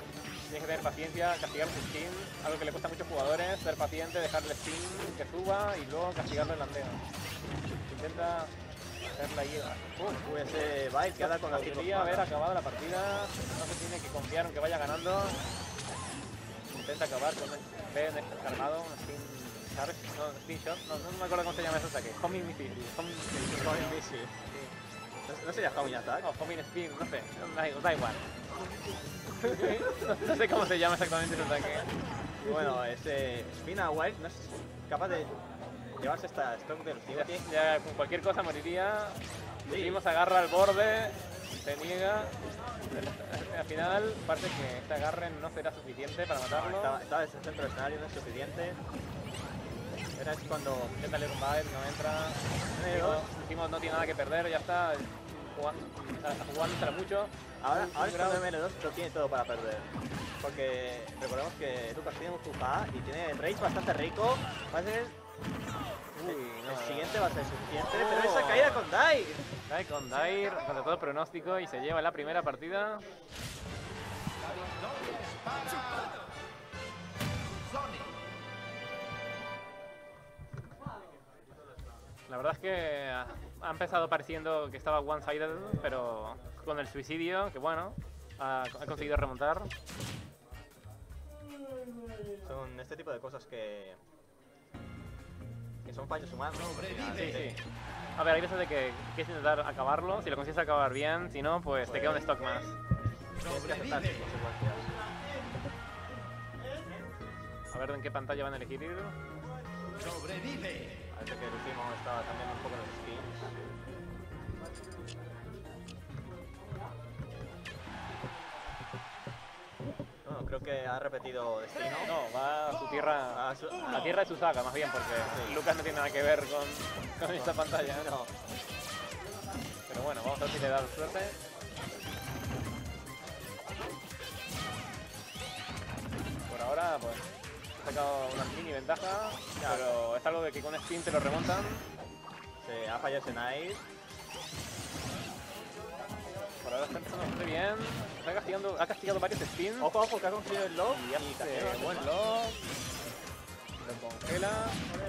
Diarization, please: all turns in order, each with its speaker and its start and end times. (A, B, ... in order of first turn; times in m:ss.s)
0:00.5-0:07.0 A
0:07.9-0:08.5 A
0:09.0-0:10.3 A
0:10.2-0:12.3 B
0:11.2-0:15.4 A
0:16.7-0:24.0 A
0:23.5-0:24.3 B
0:25.3-0:26.3 B
0:26.2-0:28.3 A
0:29.4-0:31.9 A
0:32.4-0:35.4 B
0:36.0-0:37.4 B
0:37.1-0:42.4 A
0:39.7-0:40.0 B
0:42.9-0:47.0 A
0:46.5-0:48.8 B
0:50.2-0:51.0 B
0:51.0-0:58.4 A
0:52.8-0:53.3 B
0:57.6-0:59.9 B
1:00.4-1:05.2 B
1:06.2-1:07.3 A
1:06.2-1:09.5 B
1:07.9-1:08.9 A
1:09.7-1:13.0 A
1:22.3-1:29.7 A
1:32.4-1:34.0 B
1:35.9-1:37.6 B
1:37.2-1:37.6 A
1:38.2-1:42.8 A
1:41.8-1:42.4 B
1:43.4-1:44.9 B
1:47.7-1:49.2 A
1:51.1-1:53.5 B
2:00.2-2:02.1 B
2:02.1-2:08.1 A
2:03.3-2:04.2 B
2:05.3-2:05.6 B
2:07.3-2:08.3 B
2:09.9-2:11.4 A
2:16.5-2:17.3 A
2:17.8-2:21.9 A
2:19.6-2:19.9 B
2:22.6-2:23.8 B
2:26.6-2:29.9 A
2:29.8-2:32.1 B
2:30.9-2:32.6 A
2:33.8-2:34.8 A